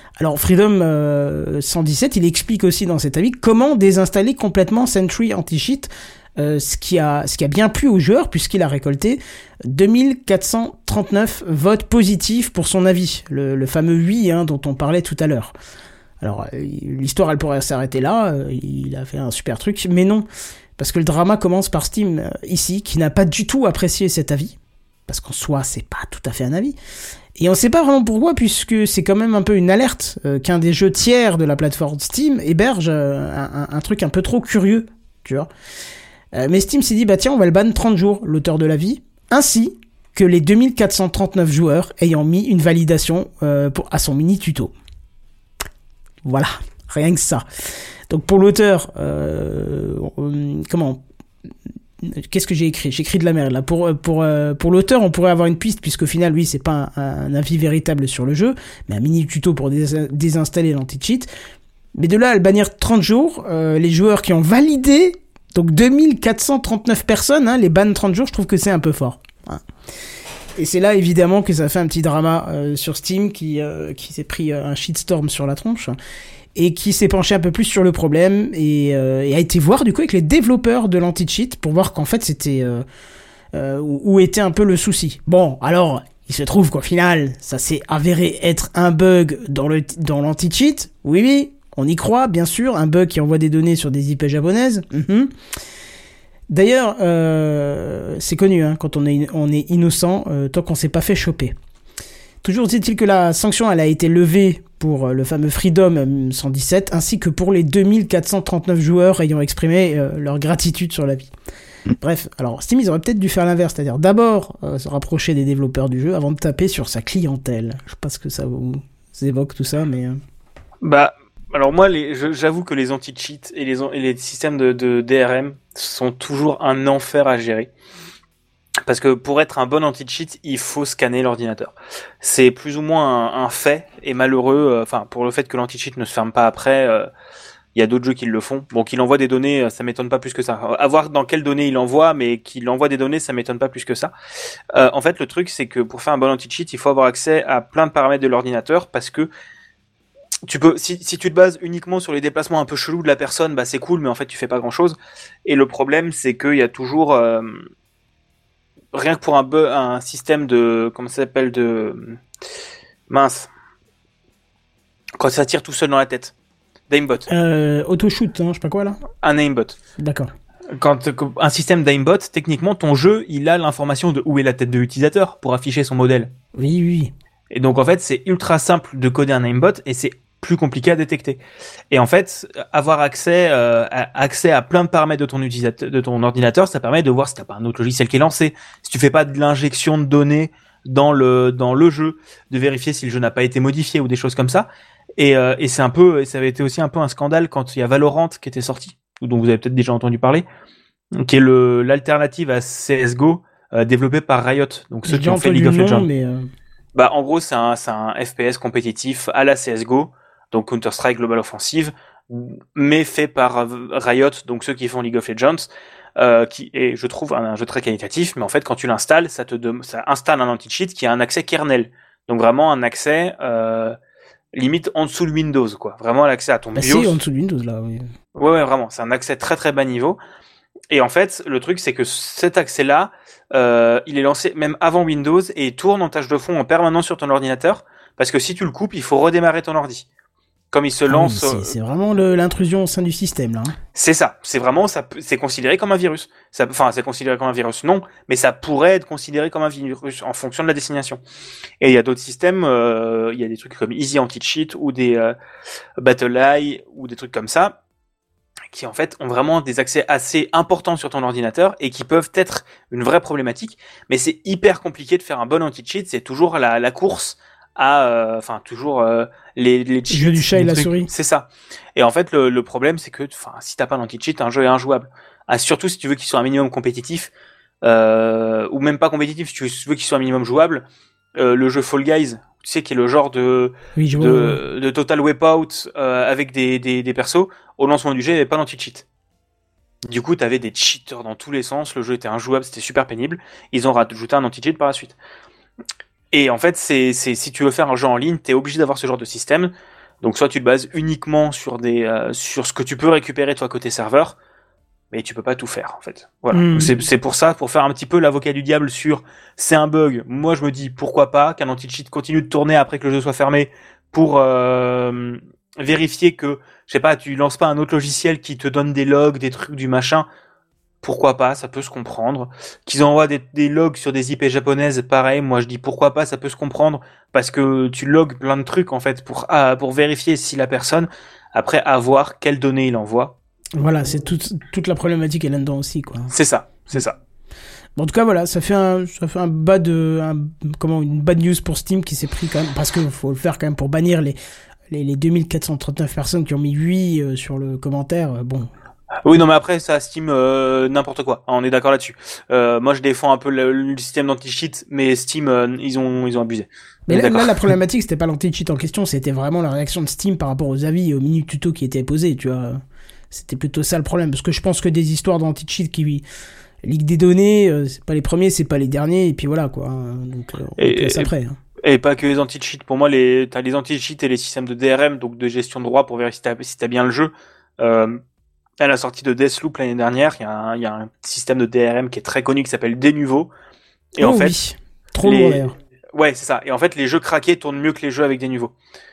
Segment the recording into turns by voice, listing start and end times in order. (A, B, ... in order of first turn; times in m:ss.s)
0:00.2-0:15.5 A
0:16.2-0:20.3 A
0:20.8-0:24.6 A
0:25.1-0:26.8 A
0:27.4-0:35.5 A
0:36.3-0:44.7 A
0:46.2-0:47.4 A
0:48.1-0:51.0 A
0:52.0-1:01.3 A
1:02.0-1:09.6 A
1:10.6-1:16.0 A
1:16.6-1:22.8 A
1:23.5-1:35.3 A
1:36.5-1:41.6 A
1:42.4-1:51.3 A
1:52.0-2:00.2 A
2:00.8-2:07.7 B
2:08.8-2:17.1 B
2:17.8-2:24.1 B
2:24.8-2:29.3 B
2:30.5-2:37.7 B
2:38.9-2:42.2 B
2:43.1-2:43.5 B
2:45.2-2:46.3 B
2:46.9-2:47.3 B
2:47.3-2:49.0 A
2:49.2-2:49.8 B
2:50.0-2:50.3 A
2:50.7-2:56.3 B
2:56.6-2:57.1 A
2:57.5-3:01.4 B
3:01.9-3:14.7 B
3:15.2-3:20.5 B
3:21.2-3:26.1 B
3:25.1-3:26.5 A
3:27.0-3:44.0 B
3:44.5-3:47.2 B
3:46.8-3:48.1 A
3:48.4-3:50.2 B
3:50.9-4:00.1 B
4:00.7-4:01.7 B
4:01.1-4:03.8 A
4:04.0-4:11.2 B
4:11.8-4:15.4 B
4:16.0-4:17.8 B
4:18.7-4:37.3 B
4:30.1-4:31.1 A
4:37.8-4:49.0 B
4:44.0-4:44.6 A
4:50.1-4:55.2 B
4:56.3-5:04.4 B
5:05.1-5:20.3 B
5:06.5-5:07.0 A
5:21.0-5:33.4 B
5:33.8-5:36.3 A
5:36.3-5:37.2 B
5:38.0-5:44.4 A
5:44.9-5:48.7 A
5:49.2-5:57.7 B
5:57.1-6:06.2 A
6:06.8-6:11.6 A
6:10.8-6:11.3 B
6:11.8-6:18.2 B
6:18.8-6:23.5 B
6:24.2-6:24.5 B
6:24.2-6:25.8 A
6:25.2-6:28.7 B